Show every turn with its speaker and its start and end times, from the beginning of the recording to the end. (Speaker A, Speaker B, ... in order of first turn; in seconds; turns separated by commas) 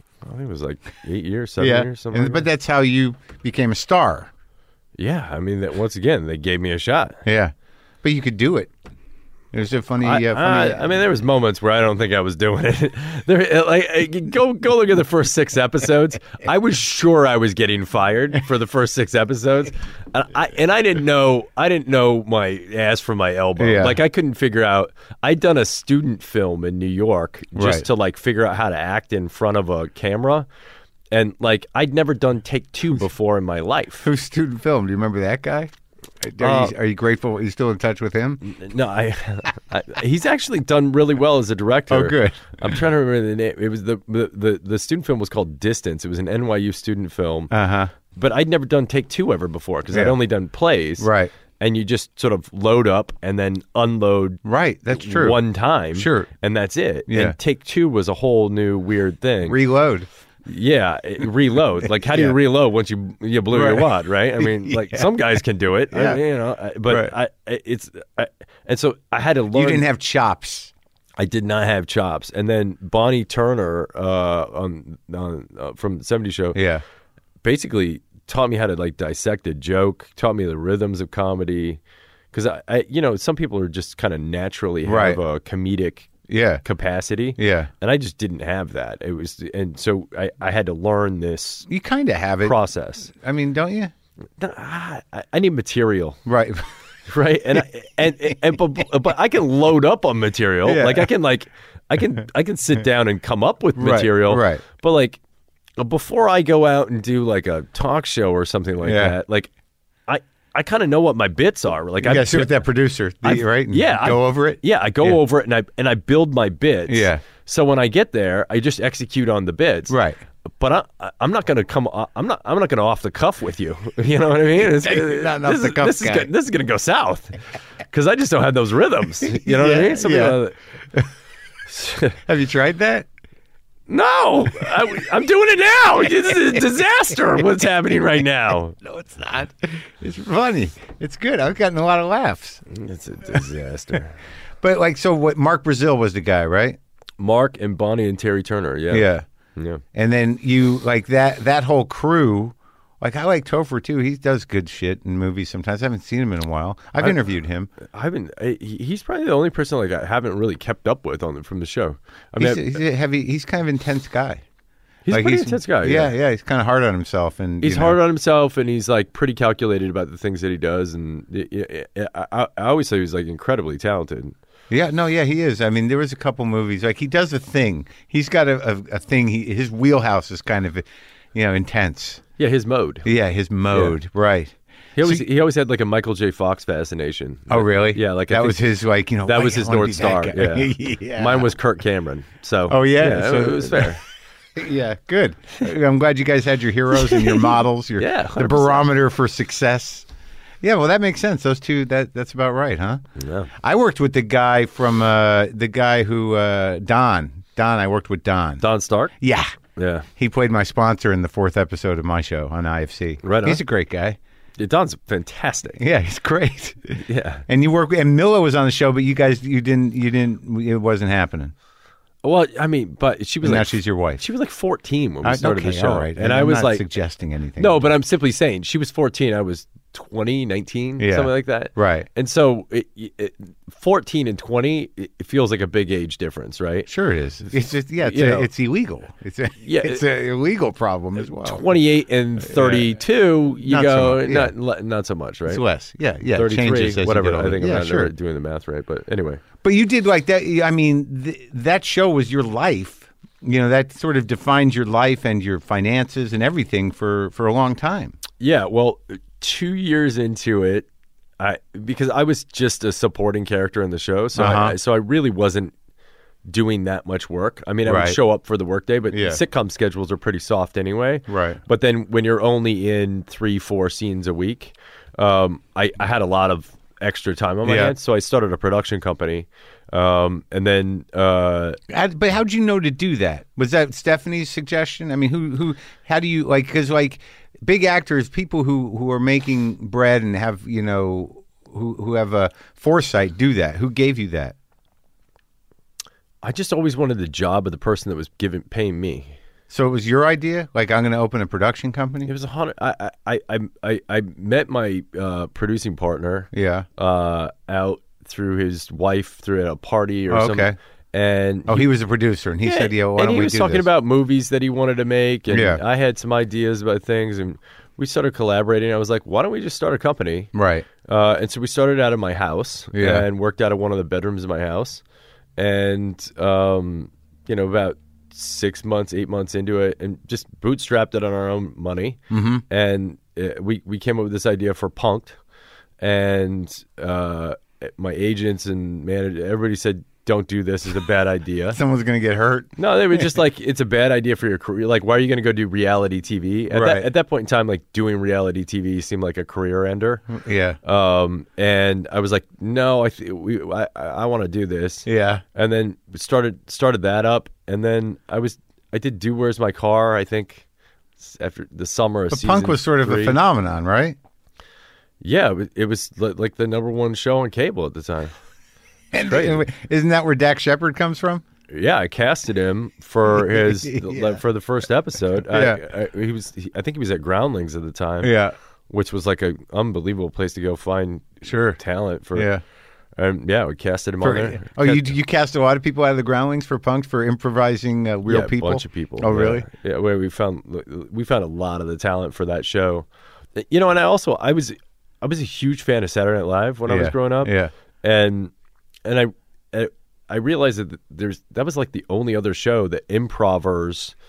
Speaker A: 0.2-2.5, Speaker B: 1.6-4.3, Speaker A: 5.0-7.2, Speaker B: 7.2-8.7, Speaker B: 9.5-10.9, Speaker A: 10.0-30.5, Speaker B: 23.6-24.0, Speaker B: 27.6-27.9, Speaker A: 31.1-34.1, Speaker B: 34.0-38.4, Speaker A: 36.4-36.7, Speaker A: 38.4-47.5, Speaker B: 41.9-42.8, Speaker B: 47.5-47.9, Speaker A: 48.1-54.4, Speaker B: 51.0-51.3, Speaker B: 54.5-55.4, Speaker A: 54.9-59.6, Speaker B: 55.9-56.3, Speaker B: 57.1-57.4, Speaker B: 59.5-60.1, Speaker A: 60.5-69.8, Speaker B: 62.0-62.4, Speaker B: 63.5-65.1, Speaker B: 65.9-66.2, Speaker B: 66.9-67.1, Speaker B: 69.5-70.7, Speaker A: 71.2-76.6, Speaker B: 76.5-76.8, Speaker A: 77.4-81.8, Speaker A: 82.3-86.1, Speaker B: 84.8-85.2, Speaker B: 86.3-86.6, Speaker A: 86.6-91.7, Speaker B: 87.4-87.7, Speaker B: 91.7-92.6, Speaker A: 92.4-93.1, Speaker B: 93.1-93.9, Speaker A: 94.4-96.2, Speaker B: 96.3-96.7, Speaker A: 97.1-105.2, Speaker B: 100.7-101.1, Speaker B: 103.8-104.6, Speaker A: 105.8-109.5, Speaker B: 108.8-109.2, Speaker A: 110.1-112.6, Speaker B: 112.0-115.2, Speaker A: 113.2-120.0, Speaker B: 116.9-117.2, Speaker B: 119.9-120.2, Speaker A: 120.6-130.6, Speaker B: 124.6-126.3, Speaker B: 129.2-130.4, Speaker A: 131.7-132.2, Speaker B: 132.2-133.1, Speaker A: 133.9-138.8, Speaker B: 138.8-142.6, Speaker A: 142.7-144.2, Speaker B: 144.6-146.8, Speaker A: 147.2-149.8, Speaker B: 148.9-149.2, Speaker B: 149.9-157.7, Speaker A: 157.8-162.8, Speaker B: 162.4-164.4, Speaker A: 165.1-166.1, Speaker B: 165.1-168.0, Speaker A: 167.6-174.3, Speaker B: 174.7-182.2, Speaker A: 182.4-183.1, Speaker B: 183.1-185.2, Speaker A: 183.7-184.0, Speaker A: 185.0-188.7, Speaker B: 187.5-191.5, Speaker A: 189.2-194.0, Speaker B: 192.7-194.0, Speaker B: 194.6-200.1, Speaker A: 196.9-198.9, Speaker B: 200.6-203.0, Speaker A: 203.2-203.5, Speaker B: 203.6-208.6, Speaker A: 208.6-209.1, Speaker B: 209.2-209.5, Speaker A: 209.8-210.1, Speaker B: 210.2-214.2, Speaker A: 213.2-213.6, Speaker A: 214.6-215.8, Speaker B: 215.8-221.5, Speaker A: 217.0-217.4, Speaker A: 222.2-226.8, Speaker B: 223.4-224.2, Speaker B: 225.2-227.9, Speaker A: 227.6-236.9, Speaker B: 231.0-232.1, Speaker B: 236.9-241.6, Speaker A: 238.0-238.5, Speaker A: 239.6-240.0, Speaker A: 241.2-245.6, Speaker B: 242.4-242.9, Speaker B: 243.7-244.5, Speaker B: 245.5-248.1, Speaker A: 246.3-249.4, Speaker B: 249.6-258.2, Speaker A: 258.4-260.9, Speaker A: 261.4-265.7, Speaker B: 264.4-264.8, Speaker A: 266.5-281.8, Speaker B: 267.9-268.2, Speaker B: 269.1-269.4, Speaker B: 271.3-271.6, Speaker B: 277.6-277.9, Speaker B: 281.9-294.6, Speaker A: 296.4-299.3, Speaker B: 299.7-302.3, Speaker A: 302.3-311.9, Speaker B: 306.5-306.9, Speaker B: 310.3-310.8, Speaker B: 311.7-313.9, Speaker A: 312.6-320.5, Speaker B: 315.5-315.8, Speaker B: 320.5-320.9, Speaker A: 321.0-325.0, Speaker B: 322.9-323.2, Speaker A: 325.6-335.4, Speaker B: 332.3-332.6, Speaker A: 336.0-341.8, Speaker B: 341.7-343.3, Speaker A: 342.8-350.2, Speaker B: 346.7-347.1, Speaker B: 350.3-350.8, Speaker A: 350.8-360.7, Speaker B: 355.1-355.4, Speaker A: 361.2-363.4, Speaker B: 362.3-364.2, Speaker A: 365.2-368.3, Speaker B: 369.1-371.4, Speaker A: 369.2-369.6, Speaker A: 371.7-378.4, Speaker B: 373.3-374.4, Speaker B: 375.5-375.8, Speaker B: 378.2-378.6, Speaker A: 378.9-382.5, Speaker B: 381.4-381.8, Speaker B: 382.4-382.6, Speaker A: 383.2-385.1, Speaker B: 384.2-389.7, Speaker A: 388.3-398.5, Speaker B: 396.9-397.7, Speaker A: 399.1-404.1